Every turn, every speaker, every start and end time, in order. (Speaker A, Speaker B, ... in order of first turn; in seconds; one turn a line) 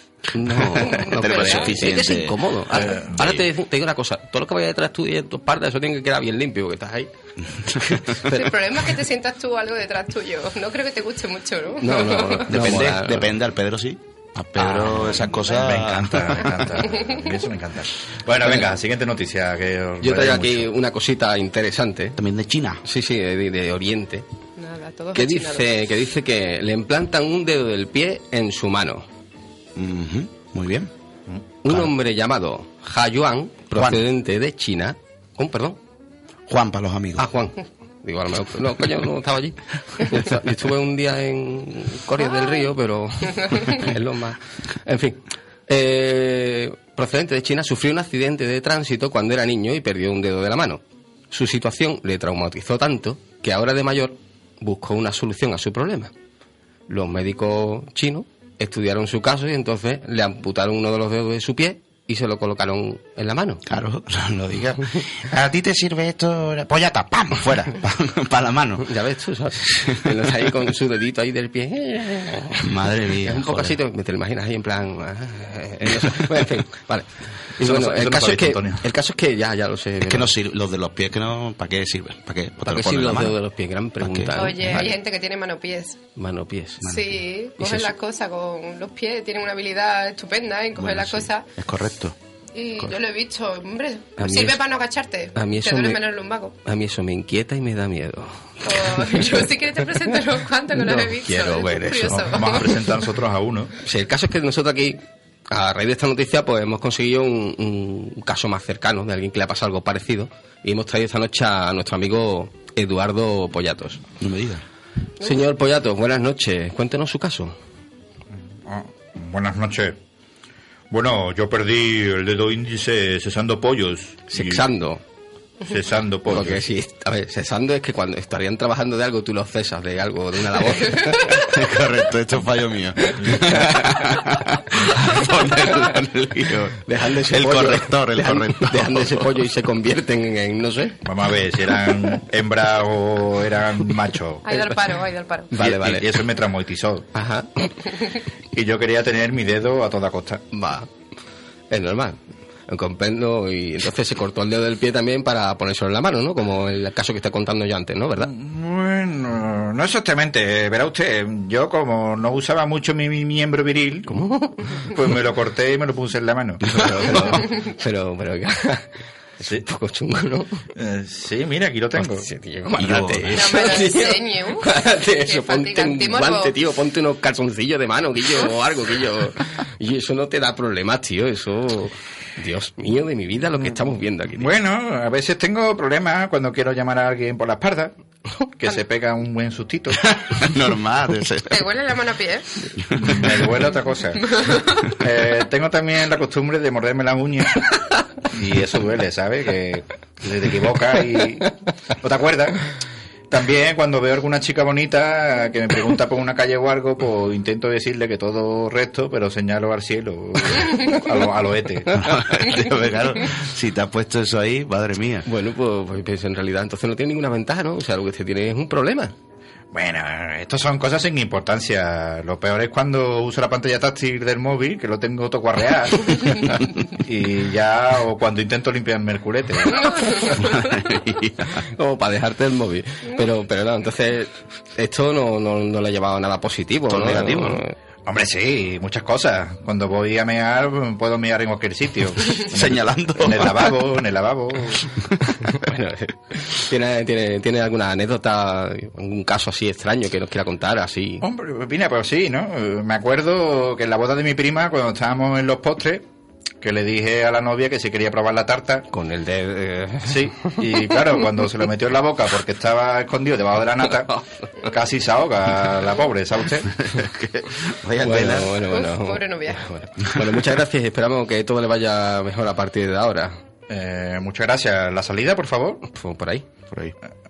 Speaker A: 0.3-7.1
Speaker B: 0.8-2.5
Speaker C: 0.9-1.7
Speaker D: 2.7-3.2
Speaker B: 3.1-3.5
Speaker A: 7.9-8.5
Speaker C: 8.3-12.5
Speaker A: 11.8-13.3
Speaker B: 12.5-16.5
Speaker A: 14.6-15.2
Speaker D: 15.4-20.7
Speaker A: 18.4-18.7
Speaker A: 20.0-22.2
Speaker B: 22.2-22.8
Speaker A: 22.8-24.2
Speaker C: 24.6-25.7
Speaker A: 25.1-29.1
Speaker B: 29.8-30.9
Speaker A: 31.6-35.8
Speaker B: 33.8-34.0
Speaker B: 36.5-37.3
Speaker A: 37.2-56.1
Speaker A: 56.9-63.6
Speaker B: 63.7-68.9
Speaker A: 68.8-72.7
Speaker B: 69.7-70.3
Speaker B: 72.6-73.8
Speaker A: 73.2-80.3
Speaker D: 77.6-78.9
Speaker B: 80.0-83.4
Speaker A: 82.7-84.9
Speaker B: 84.0-84.6
Speaker C: 84.4-86.0
Speaker A: 86.2-86.9
Speaker B: 86.8-87.2
Speaker C: 86.8-91.5
Speaker A: 87.6-87.9
Speaker B: 90.8-92.2
Speaker C: 92.5-96.6
Speaker A: 94.2-94.6
Speaker A: 95.3-96.0
Speaker A: 96.7-99.4
Speaker C: 98.6-102.8
Speaker A: 100.7-102.5
Speaker D: 102.1-103.7
Speaker A: 103.8-114.0
Speaker B: 114.2-114.6
Speaker A: 115.2-117.6
Speaker D: 118.7-120.0
Speaker D: 120.9-124.7
Speaker A: 124.3-125.0
Speaker D: 125.7-126.6
Speaker A: 126.3-131.4
Speaker B: 131.4-139.3
Speaker A: 136.8-141.0
Speaker D: 141.1-144.7
Speaker C: 144.5-145.5
Speaker A: 145.5-146.2
Speaker D: 145.6-147.1
Speaker A: 147.2-147.9
Speaker D: 148.5-150.4
Speaker A: 150.5-150.9
Speaker A: 151.7-158.3
Speaker D: 158.2-164.2
Speaker A: 164.1-164.9
Speaker D: 164.8-167.4
Speaker B: 166.7-167.3
Speaker A: 167.1-168.9
Speaker A: 169.4-170.6
Speaker D: 170.8-172.3
Speaker A: 171.9-184.5
Speaker B: 172.8-173.6
Speaker C: 173.3-176.6
Speaker D: 184.4-187.9
Speaker D: 188.6-190.0
Speaker B: 190.0-191.7
Speaker C: 191.5-192.5
Speaker D: 192.9-194.5
Speaker C: 194.3-194.7
Speaker D: 195.0-197.7
Speaker D: 198.3-202.6
Speaker D: 203.3-212.1
Speaker B: 212.0-215.3
Speaker A: 215.3-219.1
Speaker D: 219.7-230.3
Speaker B: 230.4-231.6
Speaker A: 231.8-237.7
Speaker B: 236.9-237.6
Speaker D: 238.1-244.9
Speaker B: 242.5-243.7
Speaker A: 245.5-251.2
Speaker D: 251.2-256.0
Speaker D: 256.6-258.9
Speaker A: 258.9-260.9
Speaker D: 260.1-266.7
Speaker B: 266.9-268.6
Speaker A: 268.0-273.4
Speaker C: 268.7-269.6
Speaker D: 273.7-275.8
Speaker A: 275.9-276.5